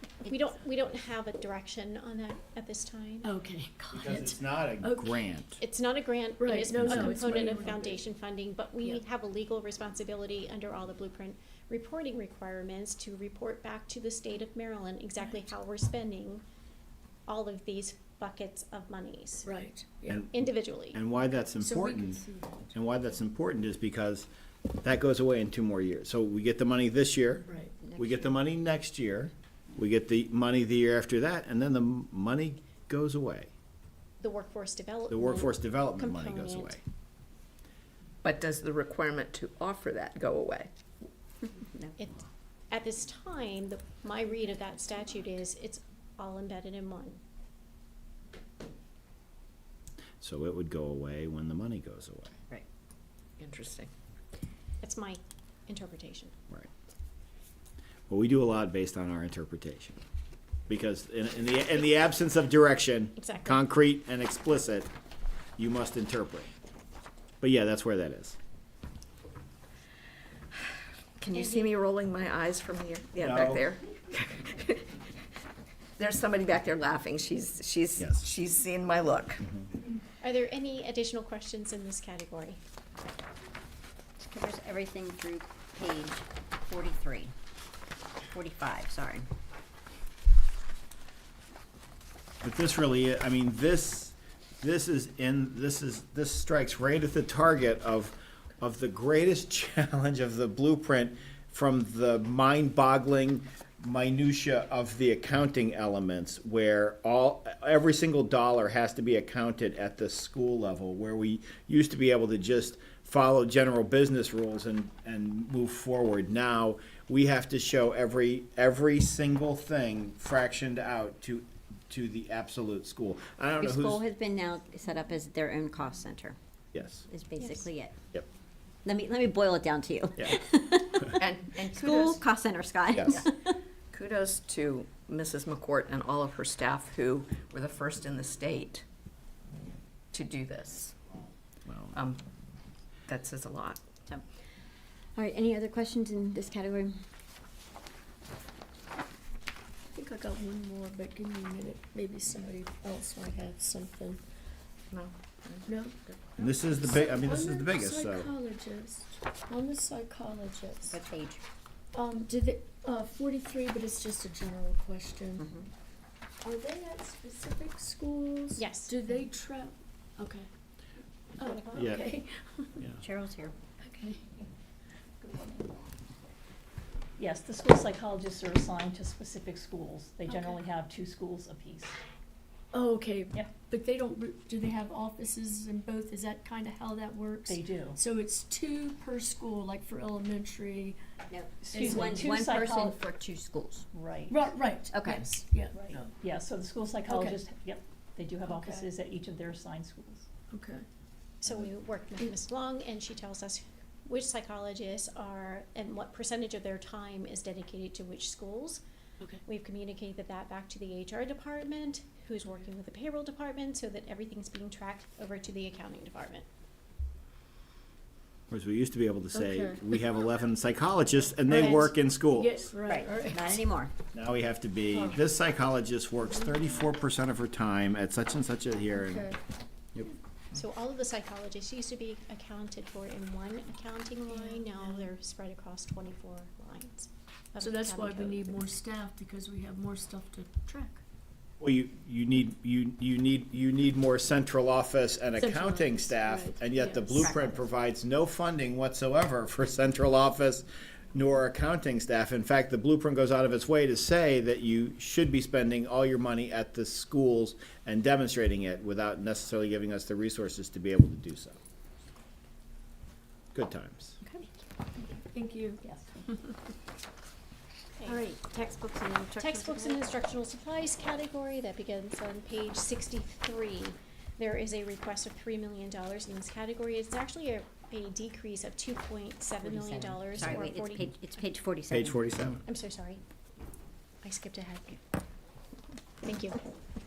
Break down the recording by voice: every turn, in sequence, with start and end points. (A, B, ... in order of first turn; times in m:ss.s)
0:00.2-0:00.5 A
0:00.2-0:03.3 B
0:03.2-0:05.3 C
0:03.9-0:05.6 D
0:05.6-0:16.4 B
0:06.4-0:08.0 C
0:06.8-0:07.7 D
0:17.3-0:19.5 B
0:19.4-0:20.2 C
0:20.1-0:24.3 D
0:20.3-0:21.0 B
0:21.6-0:22.7 C
0:24.8-0:27.4 D
0:27.8-0:28.4 A
0:28.0-0:33.5 D
0:34.2-0:36.8 B
0:35.1-0:36.8 D
0:38.2-0:40.7 E
0:41.5-0:42.0 A
0:42.0-0:47.2 B
0:50.2-0:52.3 D
0:53.4-0:53.9 E
0:54.8-0:56.3 B
0:58.1-1:00.0 D
1:00.7-1:04.9 D
1:03.2-1:03.6 B
1:05.6-1:06.5 D
1:07.4-1:08.4 D
1:11.2-1:15.0 E
1:11.4-1:11.7 B
1:13.2-1:13.7 D
1:16.0-1:19.4 E
1:18.0-1:18.3 D
1:20.2-1:22.6 B
1:24.2-1:27.3 A
1:28.3-1:29.2 A
1:32.4-2:04.0 D
2:03.6-2:06.4 A
2:06.7-2:07.0 D
2:07.1-2:08.0 A
2:07.4-2:07.7 B
2:08.8-2:13.6 A
2:11.2-2:12.2 E
2:12.9-2:13.2 D
2:13.9-2:18.8 E
2:20.1-2:21.0 E
2:21.7-2:22.0 D
2:21.9-2:22.2 E
2:23.1-2:23.8 E
2:25.2-2:27.0 A
2:29.9-2:34.2 C
2:34.9-2:36.2 E
2:35.7-2:36.0 C
2:36.4-2:38.3 D
2:36.7-2:41.0 C
2:40.9-2:41.4 A
2:41.9-2:45.5 C
2:45.4-2:45.7 A
2:46.4-2:50.5 C
2:48.6-2:49.0 B
2:51.4-2:52.8 C
2:51.4-2:51.9 B
2:51.8-2:52.0 D
2:53.0-2:53.5 A
2:53.8-2:54.2 C
2:55.2-2:55.7 F
2:57.2-3:01.9 F
3:00.3-3:00.6 C
3:02.7-3:11.0 C
3:07.5-3:08.0 F
3:11.3-3:13.9 A
3:11.6-3:13.0 F
3:11.7-3:12.4 C
3:13.9-3:14.5 F
3:14.3-3:16.1 C
3:14.9-3:15.3 A
3:15.7-3:20.3 F
3:17.1-3:17.4 C
3:18.5-3:18.9 C
3:20.5-3:20.8 C
3:21.4-3:28.8 B
3:29.4-3:36.5 B
3:38.5-3:42.7 D
3:39.3-3:39.8 C
3:41.5-3:43.5 C
3:41.5-3:41.9 B
3:42.8-3:43.9 A
3:44.1-3:49.3 D
3:44.9-3:45.2 C
3:48.9-3:49.4 C
3:50.5-3:58.6 B
3:54.3-3:55.1 C
3:57.6-4:01.0 C
4:01.6-4:21.6 D
4:05.4-4:07.3 C
4:07.0-4:07.7 A
4:23.5-4:24.2 D
4:25.2-4:25.8 C
4:25.8-4:26.1 F
4:28.0-4:28.2 B
4:28.1-4:30.0 C
4:29.4-4:41.1 B
4:39.6-4:42.5 A
4:41.9-4:42.6 D
4:42.6-4:43.2 B
4:44.2-4:45.0 B
4:46.2-4:46.6 B